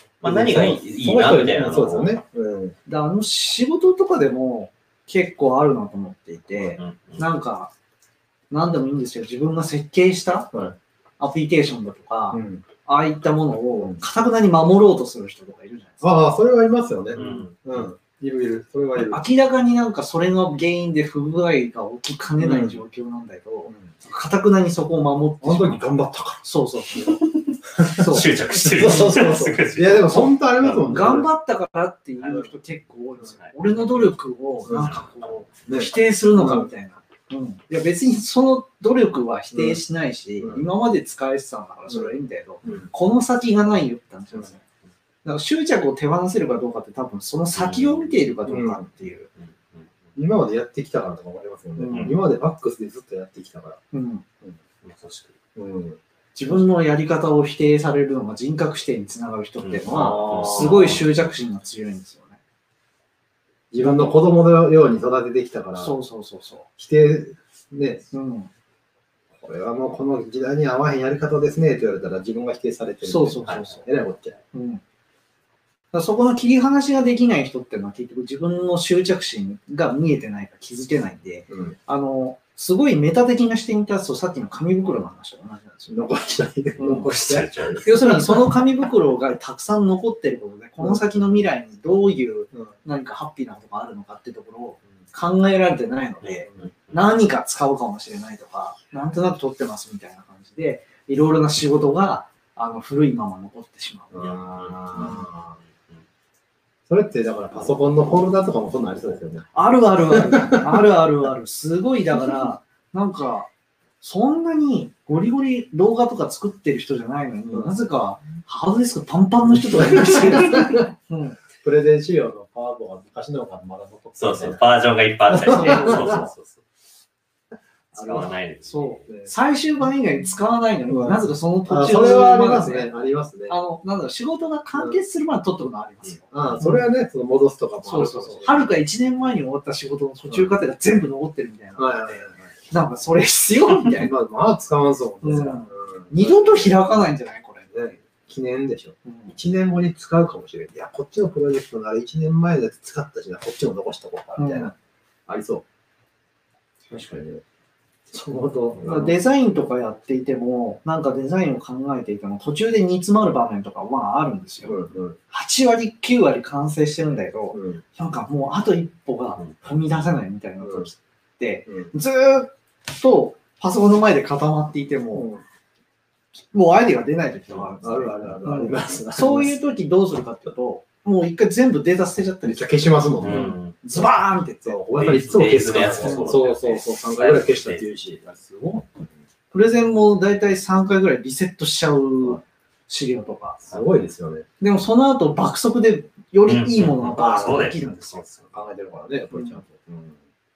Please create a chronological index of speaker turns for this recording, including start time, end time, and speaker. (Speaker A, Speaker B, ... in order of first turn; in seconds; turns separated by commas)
Speaker A: 0.2-2.1, Speaker B: 0.2-2.8, Speaker C: 2.9-7.7, Speaker A: 6.6-7.2, Speaker C: 8.5-10.5, Speaker C: 11.2-16.3, Speaker B: 12.3-12.7, Speaker B: 13.8-14.0, Speaker B: 16.0-19.3, Speaker A: 17.1-17.6, Speaker C: 17.2-17.4, Speaker C: 19.0-25.9, Speaker B: 22.4-22.8, Speaker B: 25.4-27.2, Speaker C: 26.4-27.3, Speaker A: 27.8-30.9, Speaker B: 27.8-31.3, Speaker C: 27.9-29.3, Speaker C: 30.8-44.6, Speaker A: 33.3-33.6, Speaker A: 34.7-35.3, Speaker B: 35.7-36.7, Speaker B: 39.5-39.8, Speaker B: 40.4-40.7, Speaker B: 41.9-42.9, Speaker C: 45.2-49.3, Speaker A: 47.6-48.1, Speaker B: 48.5-48.9, Speaker A: 49.4-49.9, Speaker B: 50.1-53.8, Speaker C: 51.8-52.2, Speaker A: 51.9-52.2, Speaker C: 53.9-54.2, Speaker A: 54.8-55.4, Speaker B: 55.5-56.0, Speaker C: 56.4-62.4, Speaker A: 59.6-61.1, Speaker B: 59.9-61.0, Speaker B: 63.7-65.9, Speaker C: 65.8-66.7, Speaker B: 66.8-68.1, Speaker C: 68.1-68.5, Speaker B: 69.4-74.4, Speaker C: 73.0-73.9, Speaker C: 74.5-74.8, Speaker C: 75.9-86.1, Speaker B: 81.5-81.8, Speaker B: 85.9-88.6, Speaker C: 86.8-87.1, Speaker A: 86.9-88.1, Speaker C: 87.8-104.3, Speaker A: 96.2-96.9, Speaker B: 104.1-105.6, Speaker A: 104.2-106.0, Speaker C: 105.0-105.2, Speaker B: 106.9-109.5, Speaker C: 109.5-113.5, Speaker B: 110.1-110.9, Speaker C: 114.0-121.4, Speaker B: 119.5-120.9, Speaker B: 121.5-124.6, Speaker A: 124.2-126.6, Speaker B: 125.3-126.2, Speaker C: 125.4-126.3, Speaker C: 127.9-132.9, Speaker A: 128.0-129.1, Speaker B: 130.9-133.6, Speaker C: 133.5-136.9, Speaker B: 136.3-138.7, Speaker C: 137.8-144.1, Speaker B: 140.3-140.5, Speaker B: 141.8-142.5, Speaker B: 143.9-146.8, Speaker C: 145.2-147.9, Speaker B: 147.7-154.7, Speaker C: 149.1-149.4, Speaker C: 154.4-154.7, Speaker B: 155.3-155.6, Speaker B: 156.9-157.4, Speaker B: 158.1-159.1, Speaker C: 158.8-164.8, Speaker B: 164.6-165.2, Speaker C: 165.3-175.3, Speaker B: 167.5-167.8, Speaker B: 170.6-170.9, Speaker B: 175.1-175.4, Speaker C: 176.5-184.8, Speaker B: 177.8-179.5, Speaker B: 182.4-184.0, Speaker A: 183.2-183.8, Speaker B: 184.6-189.1, Speaker A: 184.9-187.8, Speaker C: 186.0-186.4, Speaker C: 189.5-193.6, Speaker B: 193.6-194.5, Speaker C: 194.6-198.3, Speaker A: 196.4-197.8, Speaker B: 197.0-200.2